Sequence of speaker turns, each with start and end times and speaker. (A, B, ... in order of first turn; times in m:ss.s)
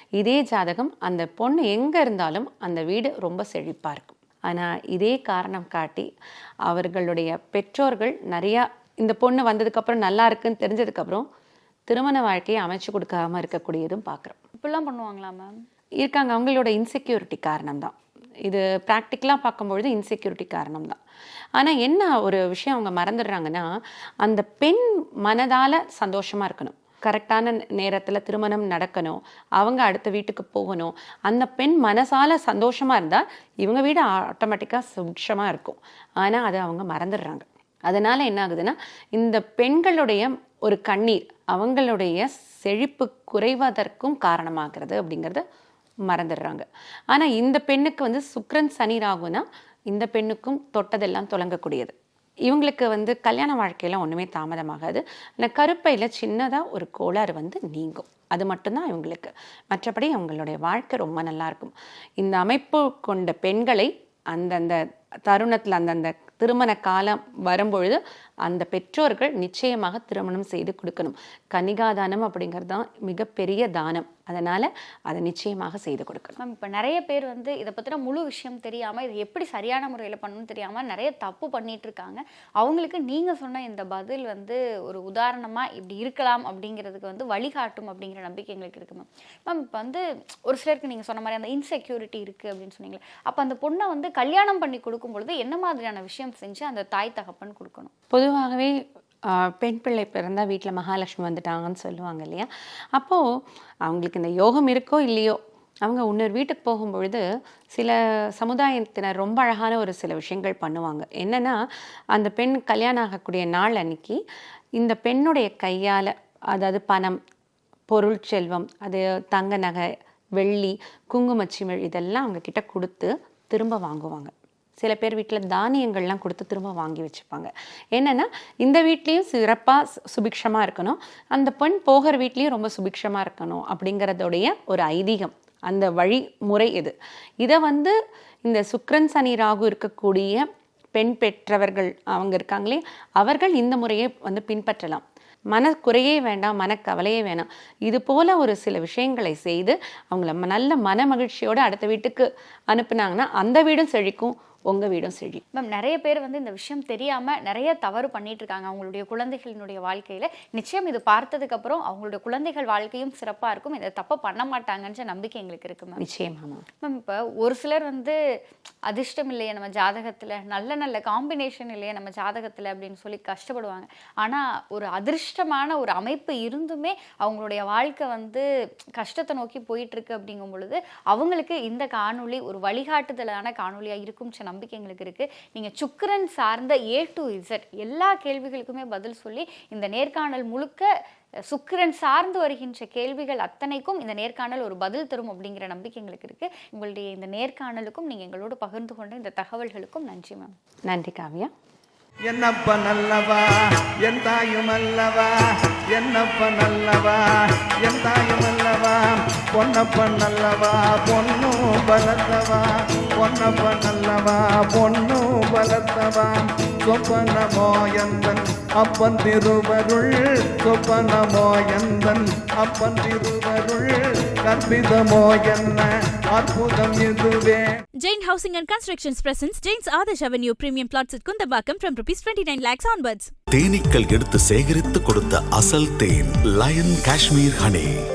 0:00.2-0:06.1 A
0:06.6-0:11.3 A
0:11.9-0:14.4 A
0:14.6-0:15.6 B
0:16.0-0:21.0 A
0:21.6-0:23.7 A
0:24.2-0:45.4 A
0:46.1-0:51.9 A
0:52.5-1:16.4 A
1:16.4-1:37.9 B
1:38.1-1:43.2 A
1:43.8-1:51.6 A
1:52.1-1:54.2 A
1:54.8-1:57.2 A
1:57.9-2:35.4 A
2:35.5-2:46.0 B
2:46.0-2:46.6 A
2:46.8-2:48.2 B
2:48.9-3:10.9 B
3:11.5-3:20.6 B
3:20.9-3:21.5 A
3:22.3-3:25.4 C
3:25.9-3:47.7 C
3:48.0-3:53.3 D
3:53.5-3:58.0 E